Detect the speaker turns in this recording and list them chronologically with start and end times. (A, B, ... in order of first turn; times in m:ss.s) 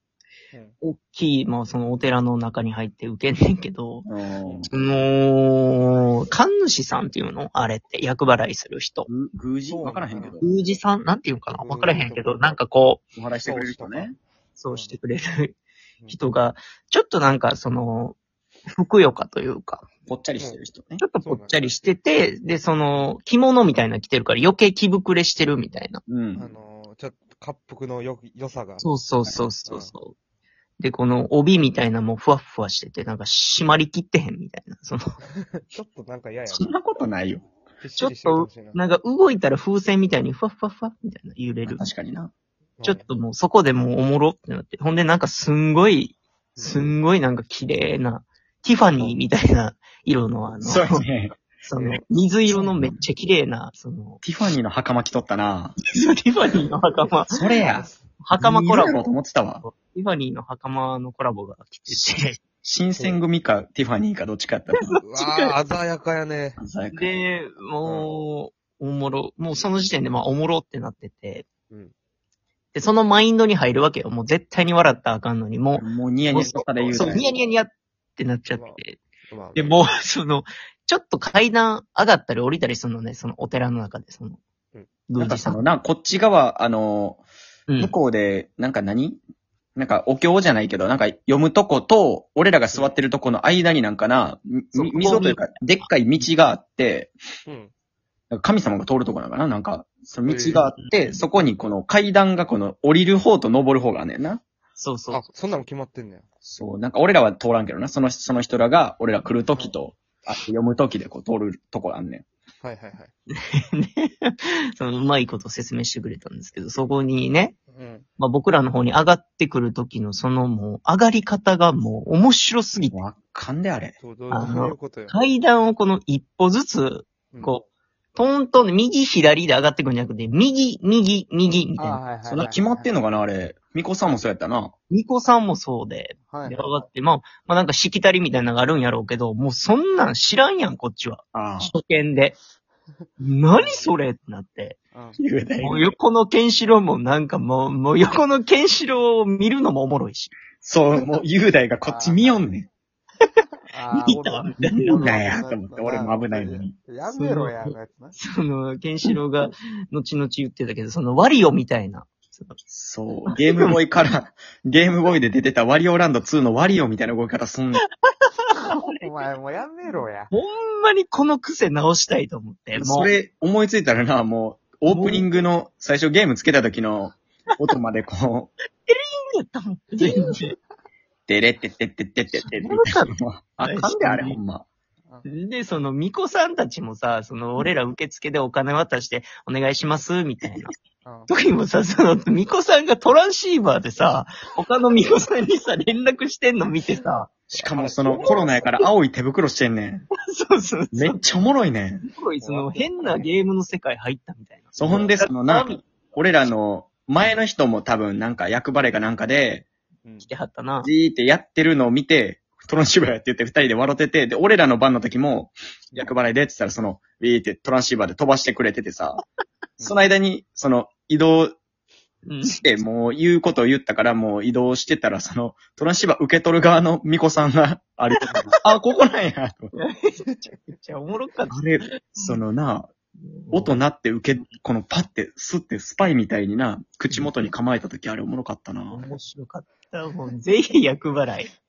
0:00.8-0:04.0 A
0:04.0-0:04.7 B
0:04.4-0:04.7 C
0:04.7-0:09.1 A
0:09.1-0:10.5 B
0:09.7-0:10.4 C
0:10.4-0:13.0 A
0:11.6-0:12.5 C
0:13.2-0:14.1 B
0:13.4-0:15.0 C
0:14.6-0:15.6 A
0:16.1-0:19.9 A
0:20.1-0:21.0 B
0:20.4-0:20.6 C
0:21.0-0:26.0 A
0:21.2-0:21.8 C
0:26.1-0:26.5 B
0:26.4-0:28.9 C
0:28.8-0:30.1 A
0:29.6-0:29.9 C
0:30.8-0:35.2 A
0:35.6-0:36.7 C
0:36.5-0:37.5 B
0:37.8-0:38.8 C
0:38.0-0:41.8 A
0:41.7-0:42.3 B
0:42.8-0:43.1 C
0:42.8-0:51.0 A
0:46.6-0:46.9 C
0:50.6-0:51.4 B
0:51.6-0:54.2 A
0:51.7-0:52.0 C
0:52.5-0:53.0 B
0:54.2-0:55.8 B
0:55.9-0:57.5 A
0:57.3-0:59.6 B
0:58.2-1:02.4 A
1:02.6-1:05.0 B
1:03.0-1:03.2 C
1:04.9-1:05.5 A
1:05.0-1:06.6 C
1:06.6-1:07.2 B
1:06.9-1:11.5 A
1:07.8-1:08.1 C
1:12.7-1:19.0 A
1:15.8-1:17.2 B
1:16.8-1:17.4 C
1:18.5-1:19.8 C
1:19.5-1:24.4 A
1:25.1-1:25.6 A
1:25.2-1:27.2 B
1:27.7-1:27.9 A
1:27.8-1:29.2 B
1:29.8-1:37.1 B
1:34.7-1:35.4 A
1:37.4-1:37.7 C
1:38.3-1:44.4 B
1:40.2-1:40.6 C
1:40.8-1:41.2 A
1:44.8-1:45.2 A
1:45.1-1:46.2 C
1:46.4-1:52.2 B
1:52.6-1:53.1 C
1:53.4-1:57.6 A
1:57.7-1:58.0 C
1:58.2-2:03.0 A
2:02.9-2:04.0 B
2:04.0-2:05.2 C
2:04.3-2:07.6 A
2:08.1-2:12.0 A
2:11.8-2:12.9 C
2:12.2-2:14.7 B
2:14.9-2:22.4 A
2:16.3-2:16.7 C
2:21.3-2:21.7 B
2:23.2-2:24.8 A
2:24.9-2:25.2 C
2:25.2-2:25.9 B
2:25.6-2:30.3 A
2:30.6-2:32.7 B
2:31.8-2:32.4 C
2:33.7-2:38.2 C
2:33.9-2:35.2 A
2:34.6-2:36.7 B
2:37.1-2:42.6 A
2:42.7-2:47.8 B
2:43.3-2:43.8 A
2:48.1-2:49.1 A
2:48.7-2:50.3 C
2:50.3-2:53.1 A
2:52.7-2:58.5 B
2:54.9-2:55.2 A
2:58.8-3:00.5 A
3:00.0-3:00.4 B
3:01.3-3:04.6 B
3:02.3-3:04.4 A
3:05.2-3:10.7 A
3:11.0-3:11.3 C
3:11.3-3:17.3 A
3:17.5-3:20.0 B
3:17.5-3:18.7 C
3:20.3-3:21.3 A
3:20.9-3:22.1 B
3:22.1-3:25.8 A
3:22.4-3:23.3 C
3:24.8-3:29.7 B
3:30.2-3:30.9 A
3:30.8-3:39.2 B
3:35.9-3:36.2 C
3:39.8-3:41.5 B
3:42.2-3:42.6 A
3:42.4-3:49.7 B
3:48.2-3:48.4 A
3:48.3-3:48.6 C
3:49.8-3:52.4 A
3:51.5-3:52.9 B
3:53.2-3:53.7 A
3:53.5-3:59.0 B
3:58.9-4:01.5 A